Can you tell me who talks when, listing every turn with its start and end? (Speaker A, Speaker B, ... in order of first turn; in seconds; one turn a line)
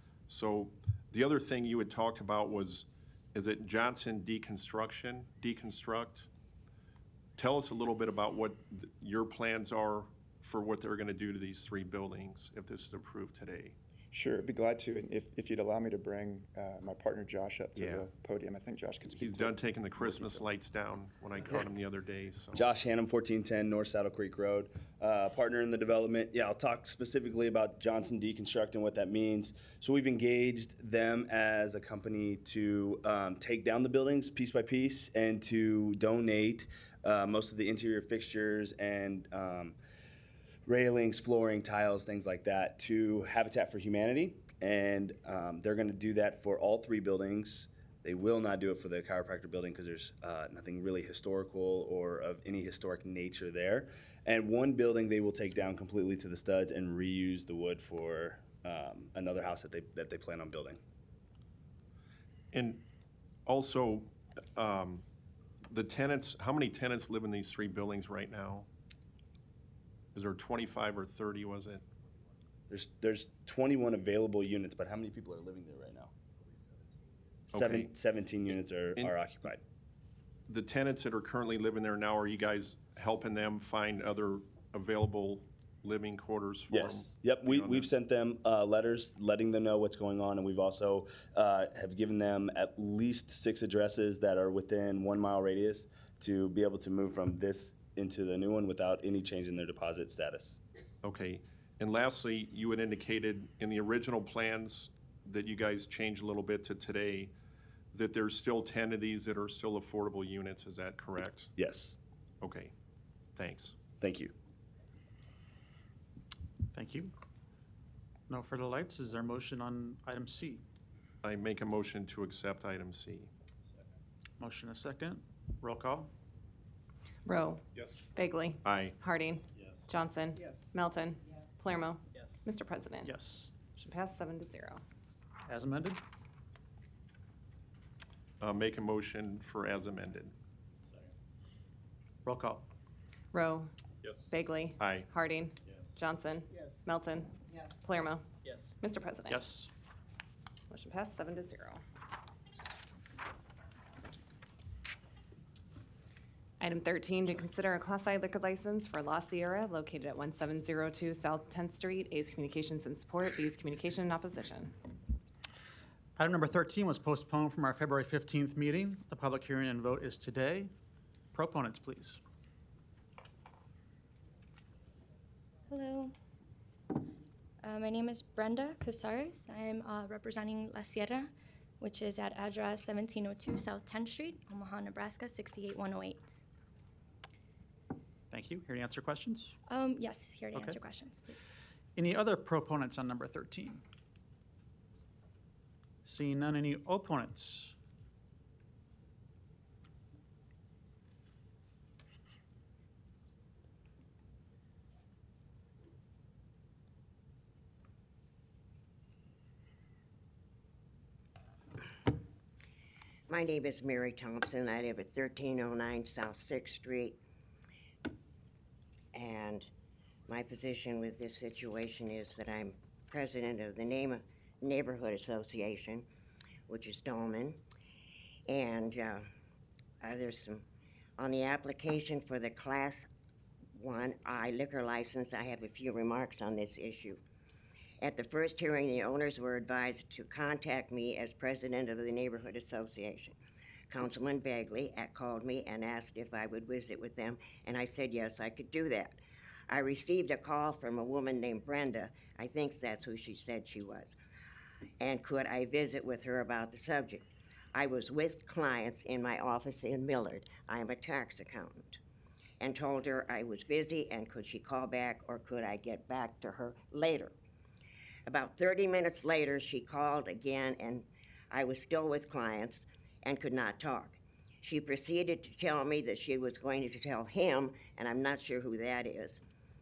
Speaker A: 0.3-6.3
Speaker A: 7.4-13.8
Speaker B: 14.1-20.4
Speaker A: 17.7-18.1
Speaker A: 19.0-22.7
Speaker C: 22.5-39.8
Speaker C: 40.6-60.8
Speaker A: 62.5-62.8
Speaker A: 63.5-65.0
Speaker A: 65.7-68.7
Speaker A: 70.1-71.8
Speaker C: 72.7-76.1
Speaker C: 77.5-79.6
Speaker A: 77.5-77.9
Speaker A: 80.5-87.9
Speaker C: 86.7-100.6
Speaker A: 101.0-107.3
Speaker A: 107.9-111.5
Speaker C: 111.6-112.0
Speaker A: 112.4-112.7
Speaker A: 113.3-113.7
Speaker C: 114.0-114.3
Speaker D: 116.7-117.1
Speaker D: 118.3-120.6
Speaker A: 121.2-123.3
Speaker D: 124.4-126.1
Speaker E: 127.2-133.1
Speaker A: 128.6-128.9
Speaker D: 133.0-133.5
Speaker E: 133.7-134.8
Speaker D: 135.4-136.0
Speaker A: 138.4-140.3
Speaker D: 142.2-142.7
Speaker E: 143.3-143.7
Speaker E: 144.3-149.5
Speaker A: 144.8-145.1
Speaker D: 149.3-149.7
Speaker E: 150.7-151.8
Speaker E: 156.6-164.7
Speaker D: 166.2-170.7
Speaker D: 171.3-172.2
Speaker F: 175.7-176.1
Speaker F: 177.6-181.3
Speaker F: 181.8-186.4
Speaker D: 188.3-189.5
Speaker F: 189.7-191.5
Speaker D: 190.5-190.8
Speaker D: 191.9-193.8
Speaker D: 196.0-197.7
Speaker G: 213.3-217.2
Speaker G: 219.1-219.7
Speaker G: 220.3-226.1
Speaker G: 226.7-227.6
Speaker G: 228.5-229.2
Speaker G: 230.0-230.6
Speaker G: 231.2-233.1
Speaker G: 233.7-237.2
Speaker G: 238.0-243.4
Speaker G: 243.9-254.2
Speaker G: 255.0-262.0
Speaker G: 262.6-267.3
Speaker G: 268.2-279.4